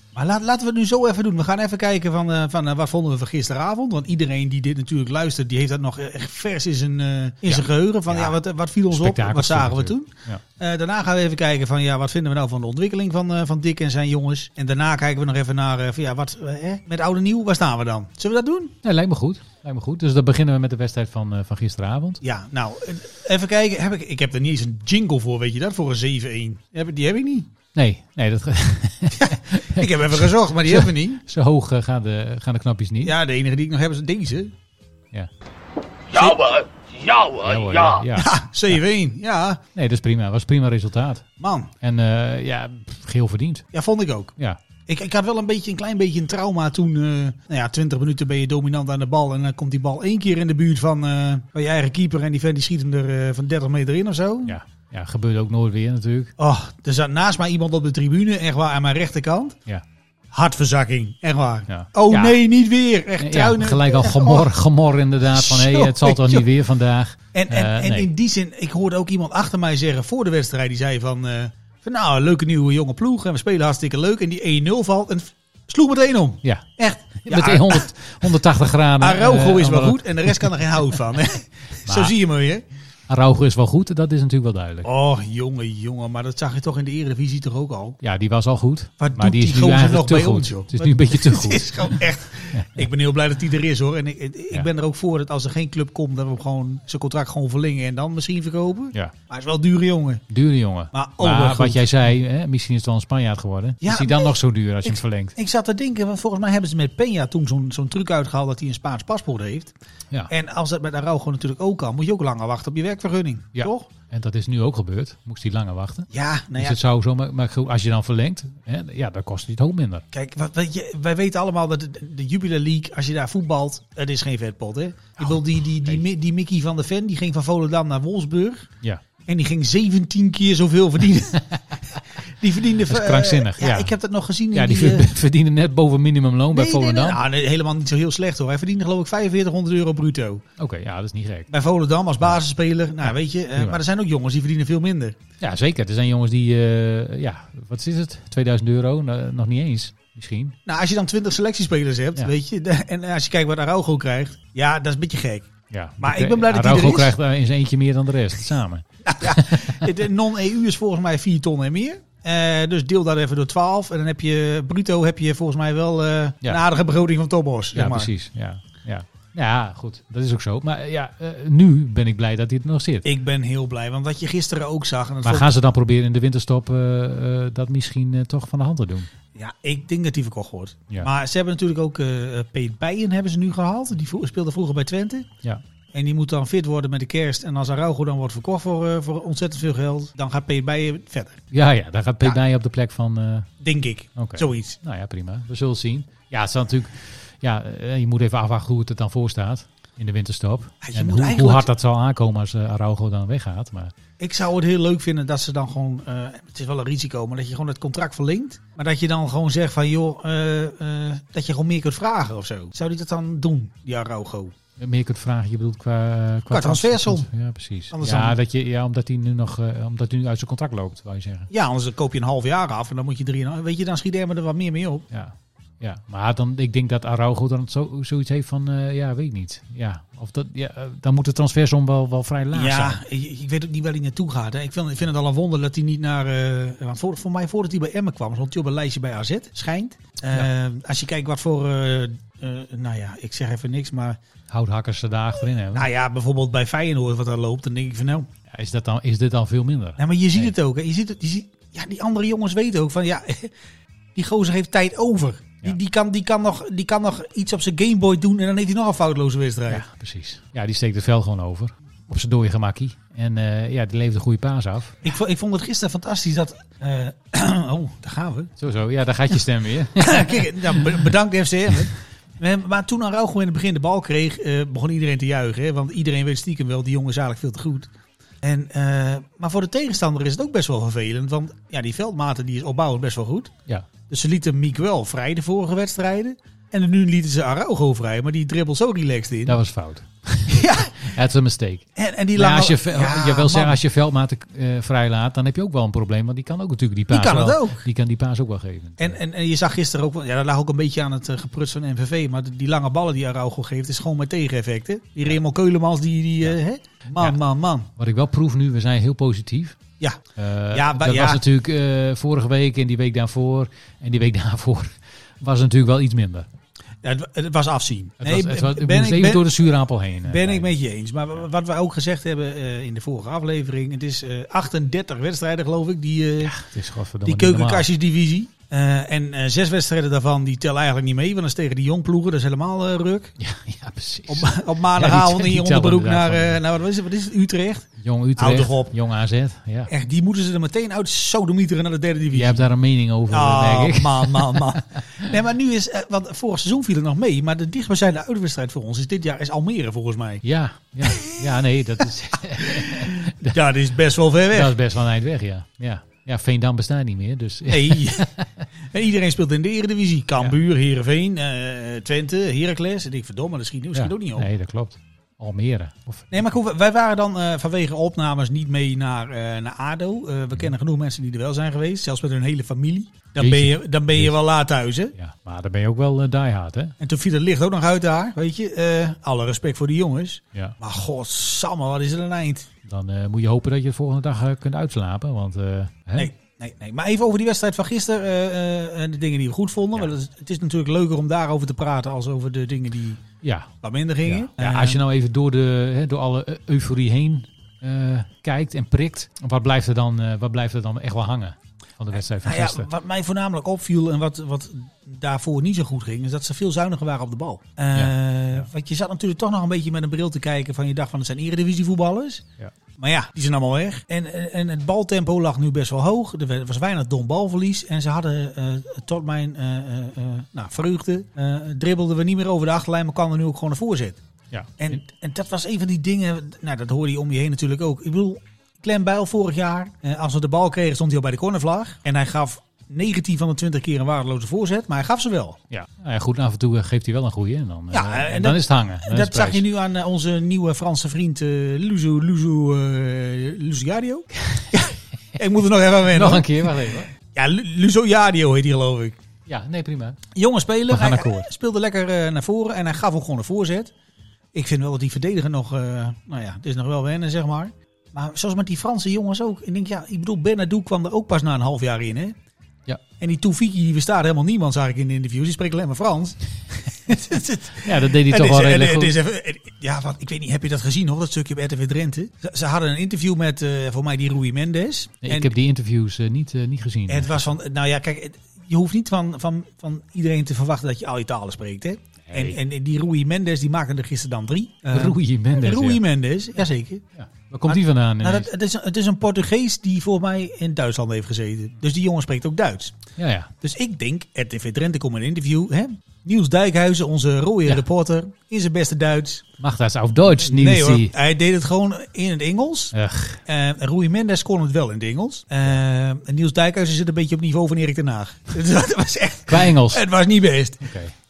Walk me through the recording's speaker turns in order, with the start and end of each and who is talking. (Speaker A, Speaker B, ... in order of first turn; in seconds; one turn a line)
Speaker A: 0.1-18.8
Speaker B: 7.5-8.4
Speaker B: 8.9-10.4
Speaker B: 18.8-22.2
Speaker A: 22.2-27.5
Speaker B: 27.7-33.1
Speaker A: 29.2-31.2
Speaker A: 33.0-34.5
Speaker A: 36.1-36.4
Speaker C: 36.1-38.0
Speaker B: 37.4-38.4
Speaker A: 38.1-39.6
Speaker B: 39.7-41.2
Speaker A: 41.4-41.7
Speaker B: 41.8-43.7
Speaker A: 43.7-44.4
Speaker A: 44.9-54.6
Speaker B: 54.5-56.3
Speaker A: 56.4-59.6
Speaker A: 60.3-64.5
Speaker B: 61.7-62.4
Speaker B: 63.2-68.1
Speaker A: 65.3-66.5
Speaker A: 67.3-78.3
Speaker B: 77.2-80.5
Speaker A: 79.0-82.6
Speaker B: 81.9-82.1
Speaker B: 83.1-84.9
Speaker A: 84.8-88.0
Speaker B: 88.0-92.0
Speaker A: 89.0-100.2
Speaker B: 92.5-92.8
Speaker B: 100.3-105.3
Speaker A: 100.9-101.9
Speaker A: 103.8-109.7
Speaker A: 110.3-113.9
Speaker B: 113.5-120.0
Speaker A: 116.1-116.8
Speaker A: 120.1-128.7
Speaker B: 125.2-126.0
Speaker A: 129.3-135.1
Speaker B: 132.9-133.9
Speaker B: 134.5-137.2
Speaker A: 136.5-140.4
Speaker B: 140.6-141.5
Speaker A: 141.5-145.2
Speaker B: 145.4-150.6
Speaker A: 150.7-155.5
Speaker B: 155.7-159.9
Speaker A: 156.0-157.2
Speaker A: 159.1-168.1
Speaker B: 167.7-173.1
Speaker A: 173.0-175.5
Speaker B: 175.2-179.1
Speaker A: 179.3-185.3
Speaker A: 185.9-191.4
Speaker B: 191.5-193.5
Speaker A: 193.6-194.8
Speaker B: 194.2-203.9
Speaker A: 200.8-201.7
Speaker A: 204.2-214.5
Speaker B: 214.8-221.5
Speaker A: 216.5-217.3
Speaker A: 217.9-218.4
Speaker A: 221.5-225.1
Speaker B: 225.1-233.0
Speaker A: 232.5-244.2
Speaker B: 244.5-245.9
Speaker A: 245.8-248.3
Speaker B: 248.5-250.5
Speaker A: 250.0-253.5
Speaker A: 254.2-259.9
Speaker B: 259.7-265.0
Speaker A: 265.0-268.5
Speaker B: 268.6-270.8
Speaker A: 270.0-277.9
Speaker A: 278.4-283.5
Speaker A: 284.1-289.6
Speaker B: 289.5-299.2
Speaker A: 290.5-291.1
Speaker A: 292.0-293.8
Speaker A: 297.1-297.9
Speaker A: 299.0-307.9
Speaker B: 308.0-309.8
Speaker B: 310.4-316.5
Speaker A: 310.7-311.4
Speaker A: 317.0-319.5
Speaker B: 318.2-320.7
Speaker A: 320.3-326.6
Speaker B: 326.4-327.9
Speaker A: 327.2-333.3
Speaker B: 333.4-336.6
Speaker A: 334.3-338.9
Speaker B: 338.0-339.9
Speaker A: 339.9-342.6
Speaker B: 342.3-345.2
Speaker A: 343.3-350.4
Speaker B: 350.4-353.6
Speaker A: 351.0-351.3
Speaker A: 352.5-354.8
Speaker B: 354.5-358.6
Speaker A: 357.7-358.3
Speaker A: 358.9-364.5
Speaker B: 363.9-366.5
Speaker A: 366.3-375.1
Speaker B: 373.4-374.4
Speaker B: 375.1-376.9
Speaker A: 377.0-382.7
Speaker B: 382.9-386.3
Speaker A: 386.2-393.2
Speaker B: 393.4-393.7
Speaker A: 393.8-395.0
Speaker B: 394.2-402.9
Speaker A: 402.1-412.5
Speaker B: 407.9-408.7
Speaker A: 413.0-424.2
Speaker A: 424.8-435.6
Speaker B: 435.7-439.6
Speaker A: 437.9-449.2
Speaker B: 446.1-447.1
Speaker B: 449.5-450.2
Speaker A: 450.3-453.9
Speaker B: 450.9-451.5
Speaker A: 454.5-462.4
Speaker A: 463.2-475.5
Speaker B: 467.8-469.2
Speaker B: 475.2-477.5
Speaker A: 477.1-487.0
Speaker B: 482.3-482.6
Speaker B: 484.9-486.0
Speaker B: 487.2-488.5
Speaker A: 487.7-493.0
Speaker B: 493.2-493.5
Speaker A: 493.6-499.5
Speaker B: 499.6-501.1
Speaker A: 500.4-502.9
Speaker B: 502.9-503.4
Speaker A: 503.5-510.9
Speaker B: 509.5-510.0
Speaker B: 510.8-511.1